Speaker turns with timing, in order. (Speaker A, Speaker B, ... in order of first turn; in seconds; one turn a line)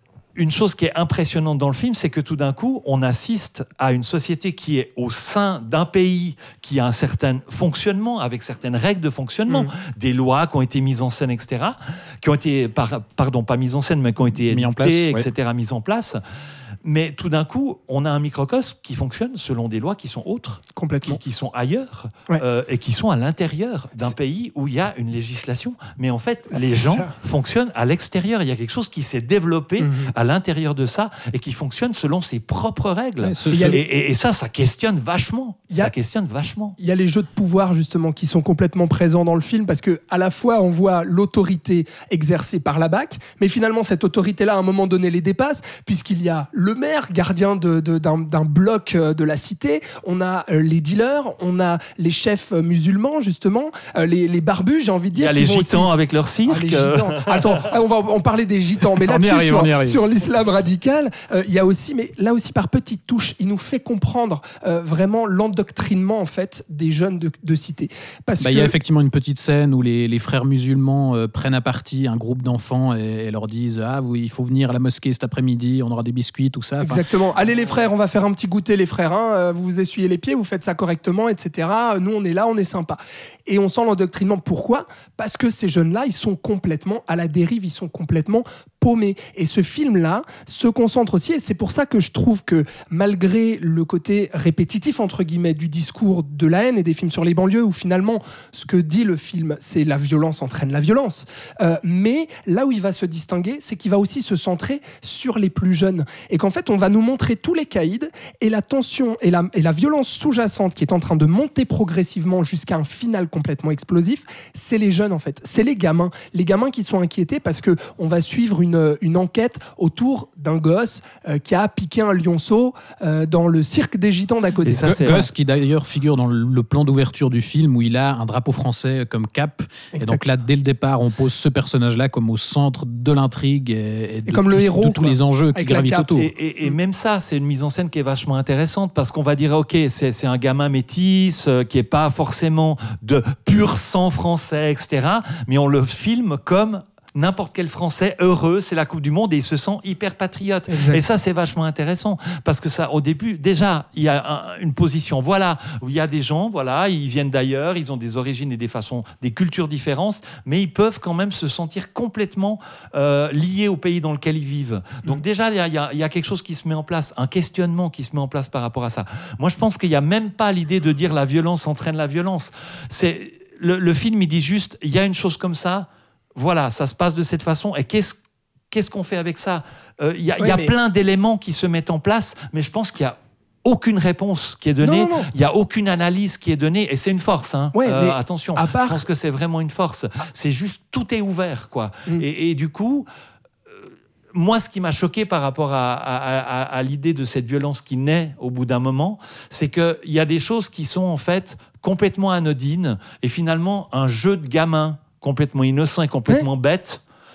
Speaker A: 0.3-16.2
Speaker B: 14.5-15.3
Speaker A: 16.8-36.8
Speaker C: 20.7-21.2
Speaker C: 26.5-27.1
Speaker C: 29.8-30.1
Speaker B: 33.2-33.8
Speaker C: 33.5-33.8
Speaker C: 36.8-55.9
Speaker A: 55.1-57.6
Speaker C: 56.5-68.7
Speaker B: 59.0-60.0
Speaker B: 68.4-77.0
Speaker C: 76.8-125.2
Speaker A: 124.6-125.3
Speaker B: 124.8-136.3
Speaker C: 129.9-130.2
Speaker C: 134.3-136.7
Speaker A: 136.2-178.2
Speaker C: 150.7-151.0
Speaker A: 178.7-193.1
Speaker C: 180.4-180.7
Speaker C: 184.8-185.3
Speaker C: 187.7-189.0
Speaker A: 194.3-207.0